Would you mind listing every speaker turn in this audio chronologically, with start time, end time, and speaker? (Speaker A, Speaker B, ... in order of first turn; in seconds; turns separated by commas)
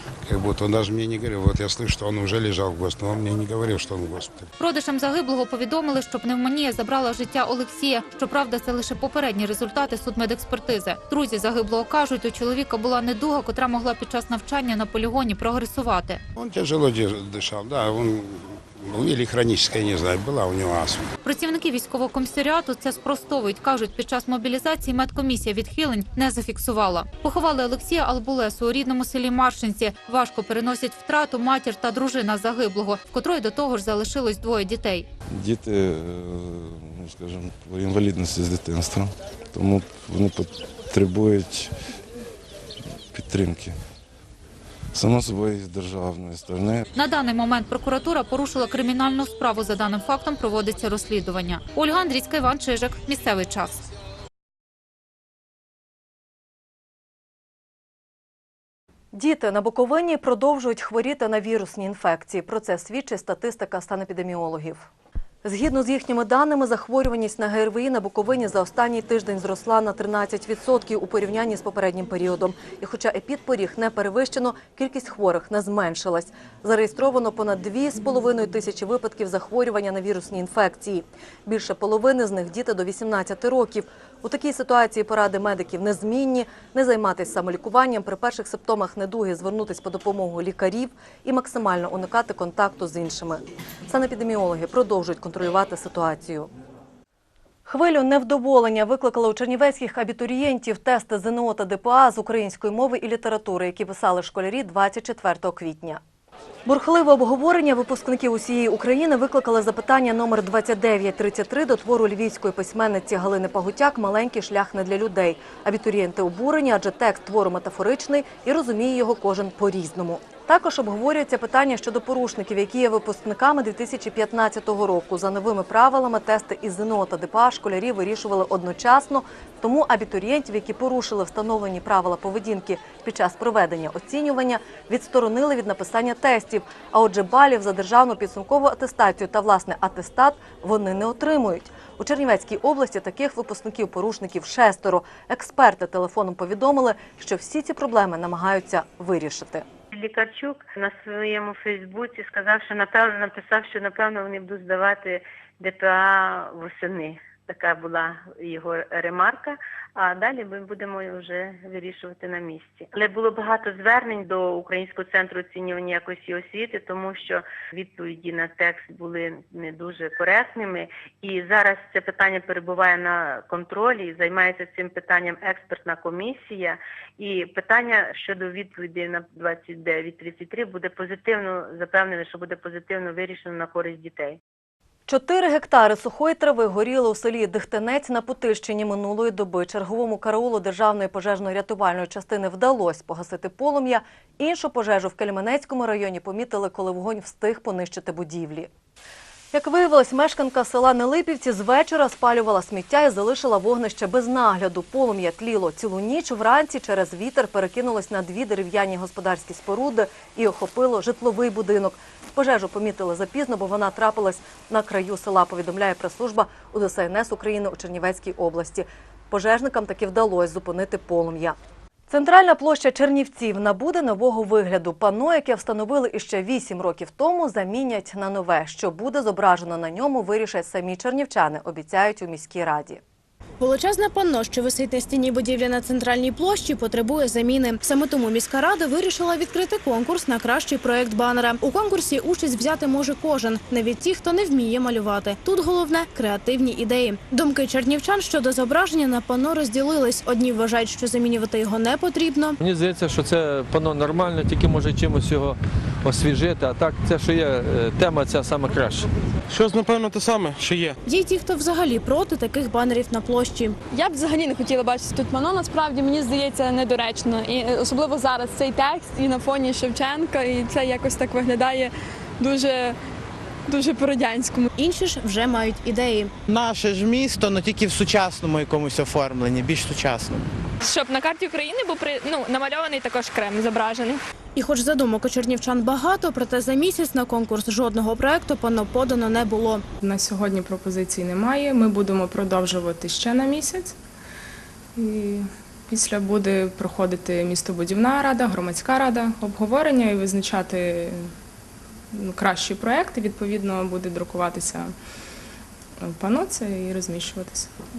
Speaker A: 0.2-4.5, Speaker B: 4.6-16.2, Speaker A: 16.4-21.0, Speaker B: 21.2-35.1, Speaker C: 35.3-41.7, Speaker C: 43.1-43.7, Speaker C: 44.9-46.8, Speaker B: 46.9-53.8, Speaker D: 59.1-64.9, Speaker D: 65.4-96.5, Speaker D: 97.7-106.0, Speaker D: 106.7-149.7, Speaker E: 149.9-184.4, Speaker D: 185.1-198.7, Speaker D: 199.5-221.6, Speaker D: 222.1-233.0, Speaker F: 233.6-252.6, Speaker G: 252.6-259.1, Speaker H: 259.5-260.9, Speaker F: 261.1-263.8, Speaker I: 263.9-273.0, Speaker I: 273.7-274.7, Speaker F: 274.8-276.3, Speaker H: 276.5-280.4, Speaker I: 280.8-284.2, Speaker F: 284.6-289.8, Speaker J: 290.0-293.9, Speaker J: 295.0-301.3, Speaker J: 302.1-304.9, Speaker J: 306.0-307.7